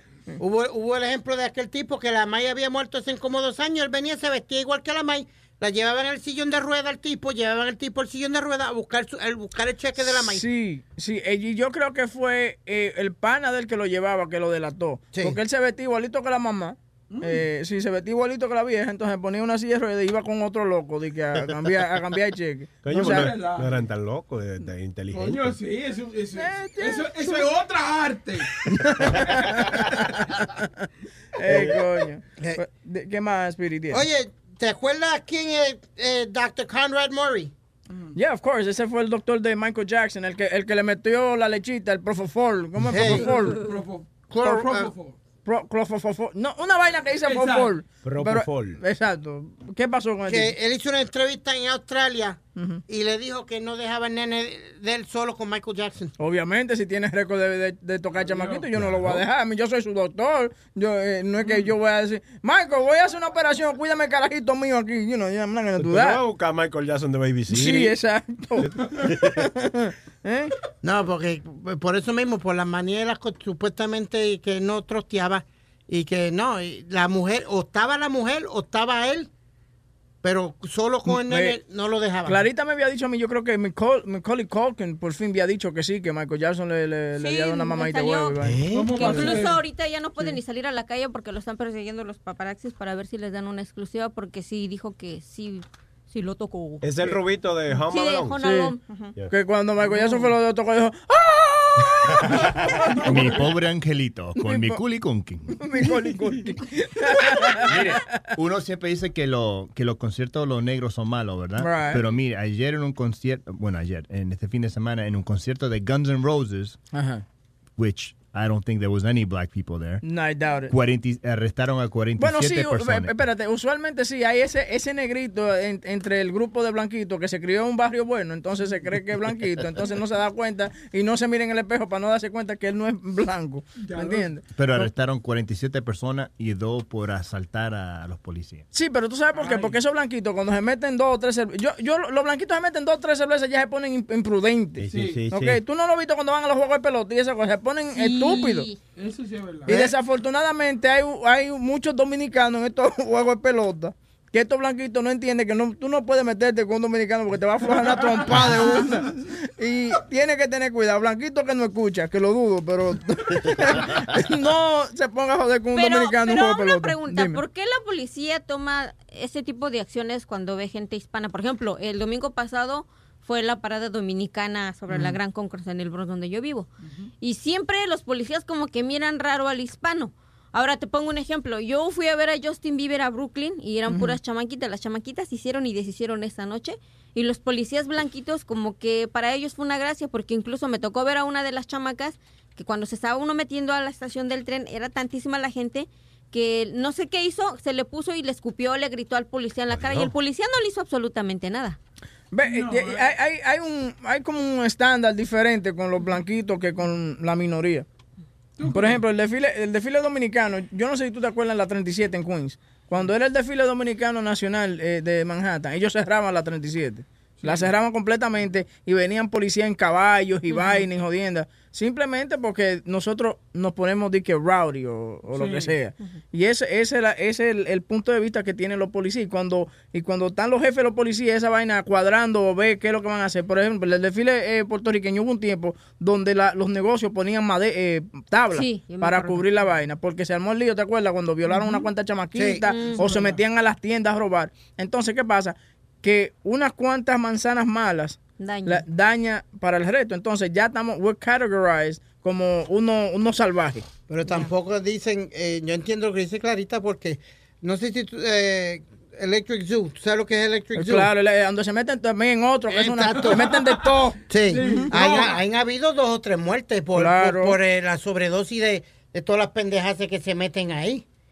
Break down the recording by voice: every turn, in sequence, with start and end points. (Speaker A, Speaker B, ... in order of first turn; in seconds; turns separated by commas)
Speaker A: 0.4-10.4, Speaker B: 10.0-23.3, Speaker C: 17.1-17.4, Speaker D: 22.8-25.6, Speaker C: 22.9-23.7, Speaker C: 25.1-29.3, Speaker B: 26.4-27.4, Speaker B: 29.0-30.9, Speaker B: 31.4-34.0, Speaker A: 33.9-37.5, Speaker B: 38.1-43.6, Speaker A: 42.9-43.3, Speaker C: 43.0-45.2, Speaker A: 44.3-44.9, Speaker B: 45.5-50.5, Speaker C: 47.2-47.7, Speaker D: 48.0-48.8, Speaker A: 50.3-56.1, Speaker B: 52.6-52.8, Speaker B: 56.2-66.2, Speaker C: 58.2-58.9, Speaker C: 61.5-61.7, Speaker D: 65.8-68.0, Speaker B: 67.5-70.5, Speaker D: 68.6-69.4, Speaker A: 70.8-79.3, Speaker A: 80.2-82.4, Speaker B: 81.1-81.6, Speaker B: 82.3-89.5, Speaker E: 87.2-96.8, Speaker D: 88.5-89.0, Speaker C: 88.7-89.6, Speaker D: 96.8-98.4, Speaker E: 97.9-99.1, Speaker B: 98.4-98.8, Speaker B: 99.3-103.4, Speaker C: 100.0-100.2, Speaker F: 103.0-105.8, Speaker B: 104.4-104.8, Speaker B: 105.6-108.0, Speaker F: 107.7-116.8, Speaker B: 111.6-112.0, Speaker B: 116.9-117.2, Speaker F: 117.8-120.0, Speaker B: 120.0-120.7, Speaker F: 120.7-123.2, Speaker B: 122.2-134.9, Speaker C: 133.8-134.3, Speaker F: 134.6-138.7, Speaker B: 138.7-148.7, Speaker C: 139.4-139.8, Speaker D: 144.8-145.6, Speaker C: 144.9-145.2, Speaker E: 147.9-148.8, Speaker C: 149.0-149.7, Speaker B: 149.7-167.4, Speaker C: 157.7-159.1, Speaker E: 165.7-201.8, Speaker B: 174.9-175.2, Speaker B: 183.9-184.2, Speaker B: 202.3-207.9, Speaker C: 202.4-203.1, Speaker C: 208.6-209.0, Speaker B: 208.6-253.9, Speaker C: 217.4-217.7, Speaker E: 220.6-220.8, Speaker C: 225.3-225.7, Speaker E: 238.5-239.5, Speaker A: 242.3-242.6, Speaker E: 242.7-243.1, Speaker C: 243.0-243.4, Speaker E: 248.4-248.8, Speaker A: 254.1-261.1, Speaker E: 254.3-254.5, Speaker B: 260.8-264.9, Speaker A: 262.7-263.5, Speaker C: 263.1-263.9, Speaker A: 264.3-271.0, Speaker C: 264.5-265.4, Speaker B: 266.9-267.6